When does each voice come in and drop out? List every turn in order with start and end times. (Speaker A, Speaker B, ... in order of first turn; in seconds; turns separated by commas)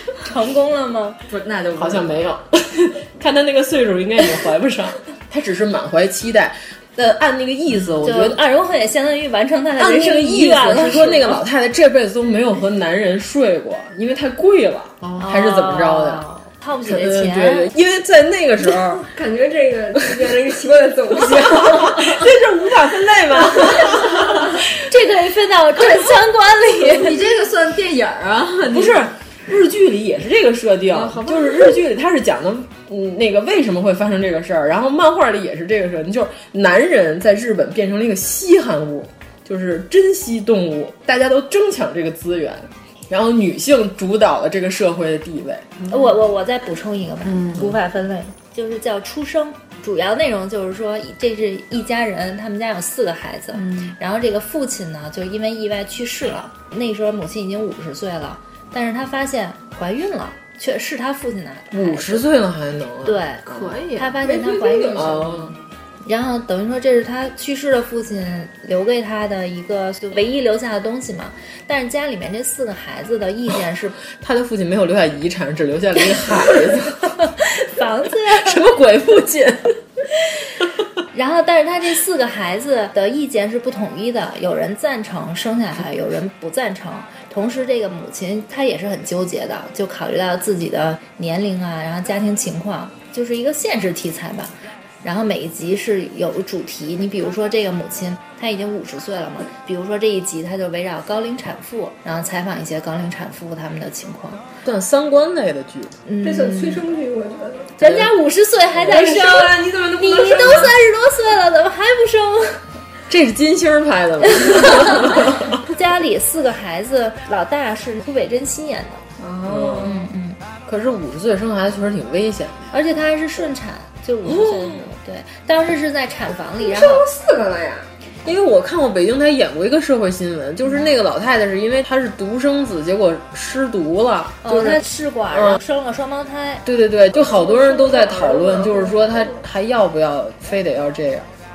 Speaker A: 0.2-1.2, Speaker B: 1.3-2.2, Speaker C: 1.8-8.4, Speaker A: 8.0-11.4, Speaker C: 9.8-16.2, Speaker A: 15.2-17.7, Speaker C: 16.8-19.0, Speaker D: 19.1-22.2, Speaker C: 21.1-24.6, Speaker A: 24.8-27.2, Speaker B: 26.8-29.1, Speaker C: 28.7-45.7, Speaker B: 30.9-31.8, Speaker A: 45.9-62.2, Speaker B: 47.3-47.6, Speaker B: 53.5-54.0, Speaker C: 61.7-63.8, Speaker A: 63.0-65.3, Speaker B: 63.5-64.2, Speaker D: 64.2-65.2, Speaker C: 64.9-65.5, Speaker A: 66.0-74.0, Speaker C: 74.1-77.2, Speaker A: 77.5-78.6, Speaker C: 78.3-79.6, Speaker A: 81.1-104.4, Speaker C: 104.6-106.0, Speaker A: 106.1-106.8, Speaker D: 106.2-107.8, Speaker A: 107.8-112.6, Speaker C: 107.8-108.1, Speaker C: 108.7-109.4, Speaker D: 108.9-110.7, Speaker C: 113.1-115.6, Speaker A: 114.6-114.9, Speaker A: 115.7-119.0, Speaker D: 119.2-120.0, Speaker C: 119.5-119.9, Speaker A: 119.8-120.4, Speaker C: 120.7-122.8, Speaker A: 122.7-127.0, Speaker C: 124.2-124.9, Speaker D: 126.6-127.9, Speaker C: 128.2-134.8, Speaker A: 134.4-136.6, Speaker C: 135.3-135.6, Speaker C: 136.6-141.3, Speaker D: 137.2-139.4